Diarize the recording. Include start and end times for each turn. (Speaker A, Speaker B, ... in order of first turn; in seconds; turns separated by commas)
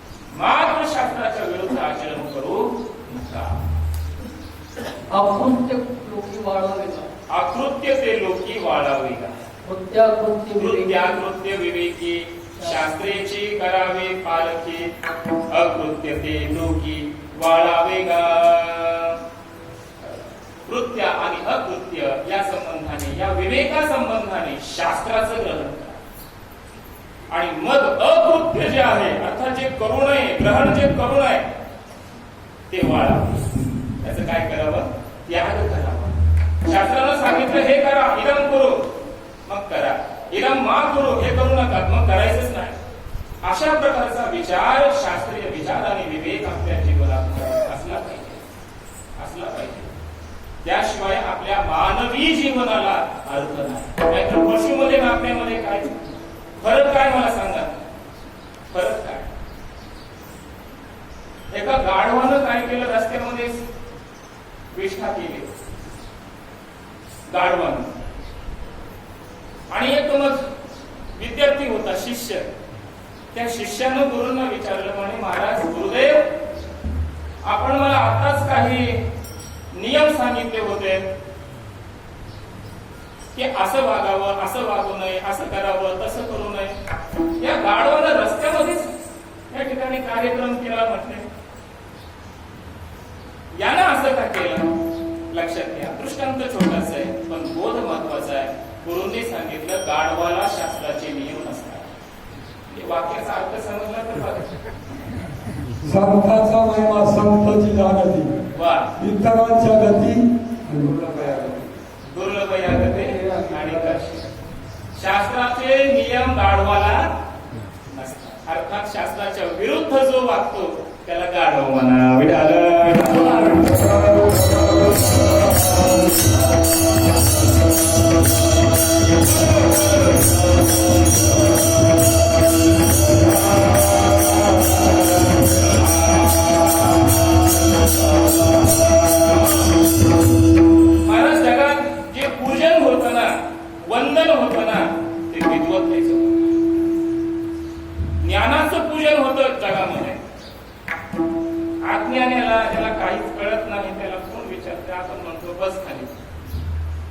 Speaker A: 0.3-3.6, Speaker B: 5.1-7.1, Speaker A: 7.3-9.3, Speaker B: 9.7-11.2, Speaker A: 10.6-14.9, Speaker A: 15.5-19.2, Speaker A: 20.0-26.0, Speaker A: 27.3-31.5, Speaker A: 32.7-38.9, Speaker A: 39.5-42.8, Speaker A: 43.4-48.5, Speaker A: 49.2-49.9, Speaker A: 50.6-56.0, Speaker A: 56.6-57.7, Speaker A: 58.7-59.3, Speaker A: 61.5-63.6, Speaker A: 64.7-65.5, Speaker A: 67.3-67.9, Speaker A: 69.7-70.5, Speaker A: 71.2-72.5, Speaker A: 73.3-76.3, Speaker A: 77.4-79.0, Speaker A: 79.7-81.0, Speaker A: 83.3-86.8, Speaker A: 87.4-88.9, Speaker A: 89.5-91.3, Speaker A: 93.6-94.7, Speaker A: 95.3-101.9, Speaker A: 102.7-104.5, Speaker C: 105.8-111.6, Speaker A: 108.5-109.0, Speaker A: 112.1-114.3, Speaker A: 115.0-117.1, Speaker A: 117.9-123.7, Speaker A: 136.0-136.4, Speaker A: 141.0-146.4, Speaker A: 148.2-150.2, Speaker A: 151.8-156.2